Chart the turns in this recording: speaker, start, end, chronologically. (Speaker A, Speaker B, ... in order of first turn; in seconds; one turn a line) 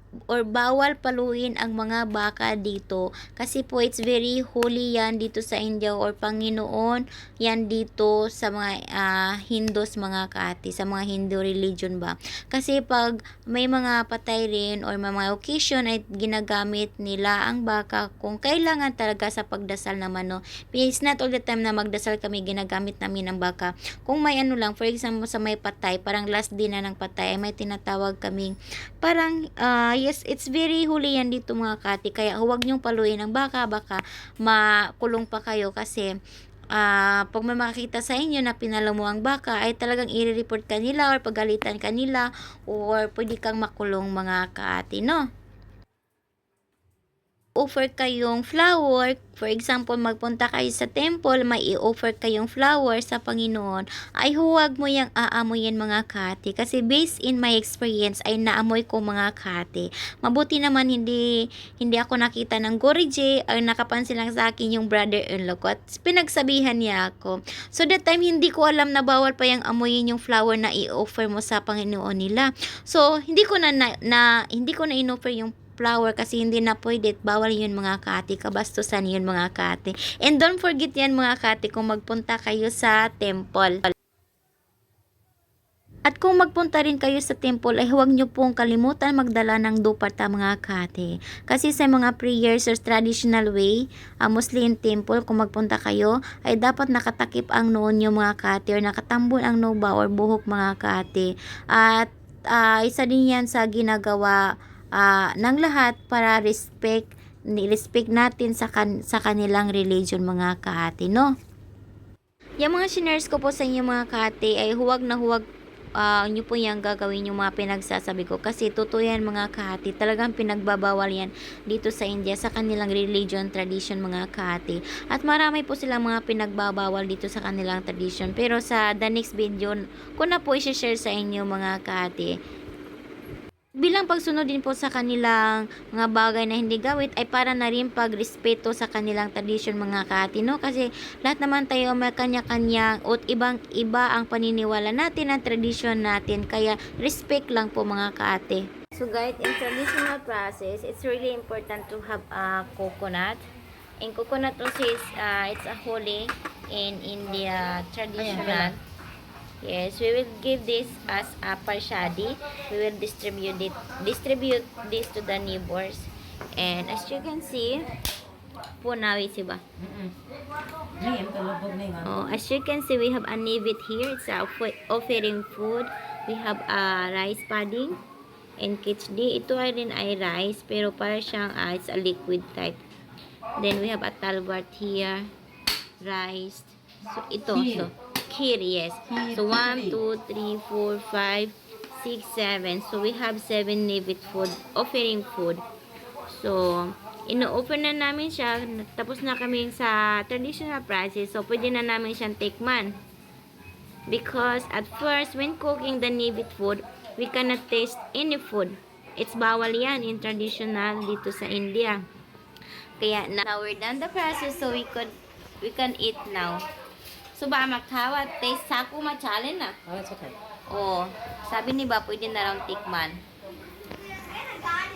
Speaker A: 0.3-36.1
Speaker A: 36.7-45.3
Speaker A: 47.6-61.2
Speaker A: 61.8-83.9
Speaker A: 86.1-104.4
Speaker A: 105.0-111.3
Speaker A: 112.6-115.5
Speaker A: 116.0-132.4
Speaker A: 133.8-153.4
Speaker A: 154.0-158.8
Speaker B: 158.2-158.7
Speaker A: 159.6-167.9
Speaker A: 168.8-169.6
Speaker B: 169.8-170.1
Speaker B: 171.0-172.2
Speaker A: 172.0-178.0
Speaker A: 178.6-182.8
Speaker A: 183.6-185.3
Speaker A: 186.0-195.6
Speaker B: 187.5-187.9
Speaker B: 189.1-190.0
Speaker A: 196.3-203.0
Speaker A: 204.1-212.1
Speaker A: 213.0-216.6
Speaker A: 217.3-219.8
Speaker B: 219.9-220.4
Speaker A: 220.7-223.2